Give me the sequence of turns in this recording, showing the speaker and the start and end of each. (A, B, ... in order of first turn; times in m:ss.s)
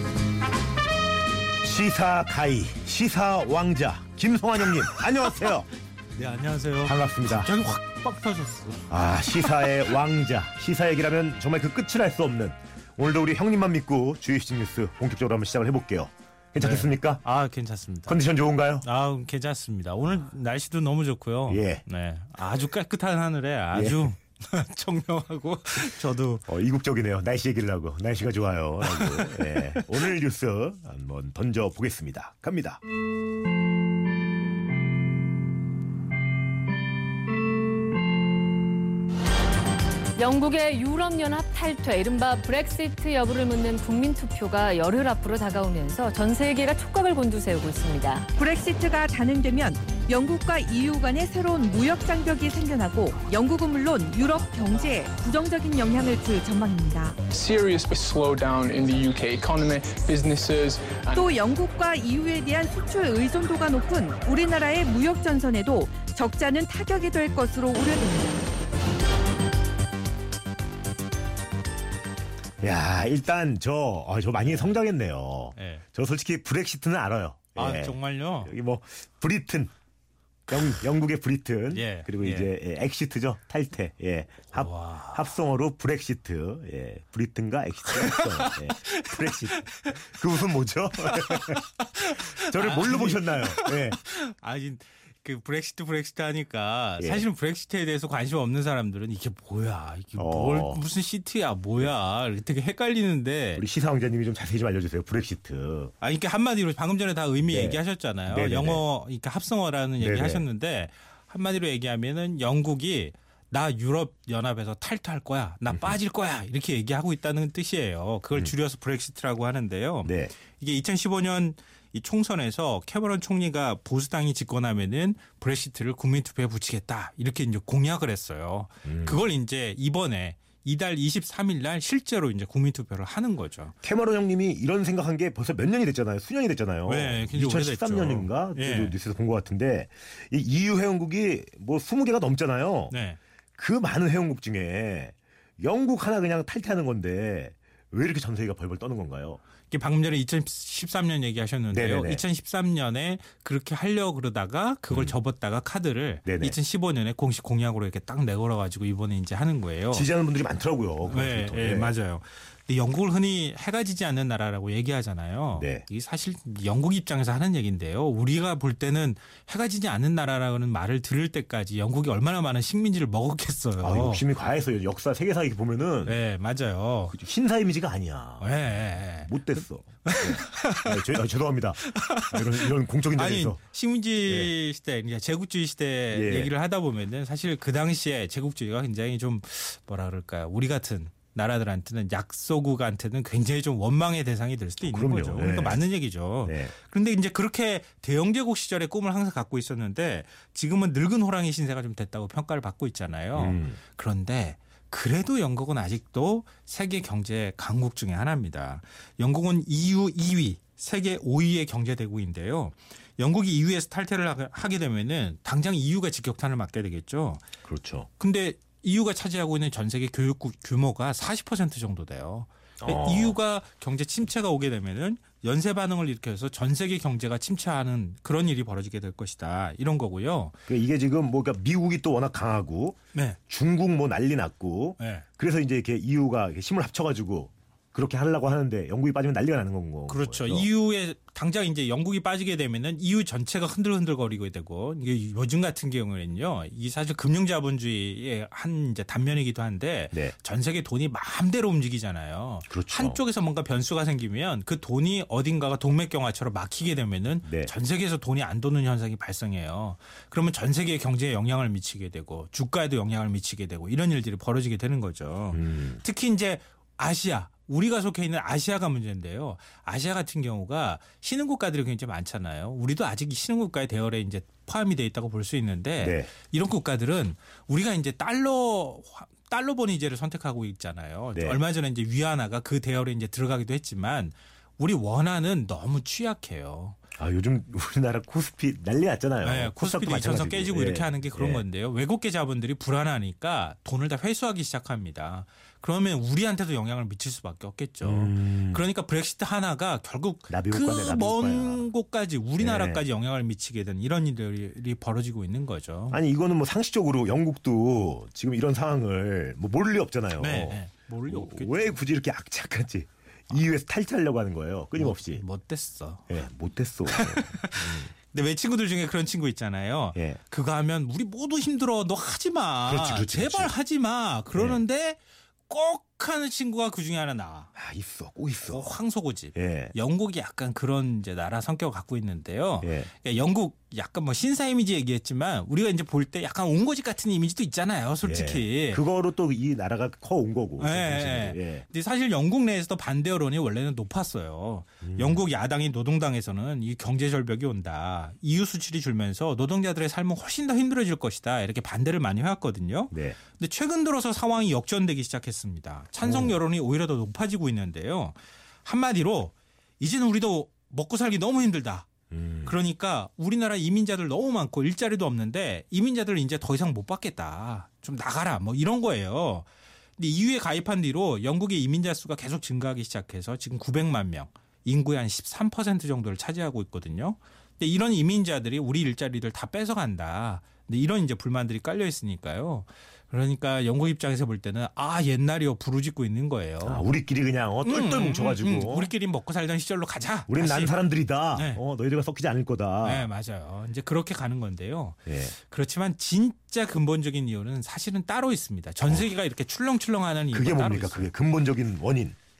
0:01.6-0:05.7 A
0:06.2-0:08.9 B
0:06.8-0:07.5 A
0:08.9-0:17.2 A
0:09.4-0:09.7 B
0:16.6-0:18.2 B
0:18.1-0:18.9 A
0:18.8-0:26.5 B
0:21.5-0:21.8 A
0:23.7-0:24.1 A
0:26.5-0:32.8 A
0:28.8-0:30.1 B
0:40.2-0:48.3 C
0:48.4-0:57.2 D
0:57.3-1:01.3 E
1:01.2-1:08.5 D
1:12.6-1:19.7 A
1:14.4-1:14.8 B
1:15.6-1:15.8 B
1:17.6-1:18.5 B
1:20.5-1:31.6 A
1:21.7-1:22.5 B
1:24.5-1:25.4 B
1:27.9-1:30.1 B
1:31.0-1:43.6 B
1:32.2-1:34.0 A
1:37.0-1:37.3 A
1:40.2-1:40.9 A
1:43.6-1:45.9 A
1:46.0-2:13.7 B
1:47.4-1:48.8 A
1:50.0-1:50.4 A
2:00.0-2:00.3 A
2:08.8-2:09.2 A
2:13.8-2:22.9 A
2:16.8-2:19.0 B
2:22.9-2:23.2 B
2:23.6-2:29.4 A
2:29.7-2:40.1 B
2:31.7-2:32.2 A
2:36.3-2:36.6 A
2:39.9-2:42.0 A
2:41.0-2:54.2 B
2:45.5-2:45.8 A
2:53.8-2:56.2 A
2:56.0-2:57.2 B
2:57.1-3:03.6 A
2:58.4-3:01.2 B
3:01.8-3:37.4 B
3:04.3-3:04.5 A
3:06.1-3:06.5 A
3:14.8-3:15.8 A
3:16.4-3:16.7 A
3:23.4-3:23.8 A
3:37.6-3:38.1 A
3:38.2-3:50.6 B
3:42.8-3:43.4 A
3:50.7-3:53.0 A
3:53.1-3:53.4 B
3:53.5-4:00.7 A
3:55.0-3:55.3 B
4:00.1-4:47.0 B
4:12.7-4:13.2 A
4:17.4-4:17.7 A
4:25.5-4:26.0 A
4:36.0-4:36.3 A
4:41.3-4:41.6 A
4:47.2-4:51.6 A
4:49.4-5:06.2 B
4:58.0-4:58.8 A
5:00.5-5:01.9 A
5:02.6-5:03.0 A
5:06.1-5:15.4 A
5:10.4-5:12.0 B
5:15.0-5:16.3 B
5:16.3-5:18.1 A
5:17.1-5:27.7 B
5:22.8-5:23.8 A
5:24.5-5:24.8 A
5:27.8-5:29.0 A
5:28.7-5:39.0 B
5:29.5-5:30.0 A
5:32.8-5:33.1 A
5:38.2-5:41.8 A
5:40.8-6:02.1 B
5:45.0-5:45.4 A
5:53.1-5:53.4 A
5:56.2-5:56.6 A
6:02.3-6:02.8 A
6:02.6-6:09.7 B
6:10.2-6:27.1 B
6:26.8-6:29.1 A
6:27.8-6:31.0 B
6:30.5-6:33.3 A
6:31.5-6:31.8 B
6:33.0-6:41.3 B
6:35.3-6:35.6 A
6:40.5-6:42.4 A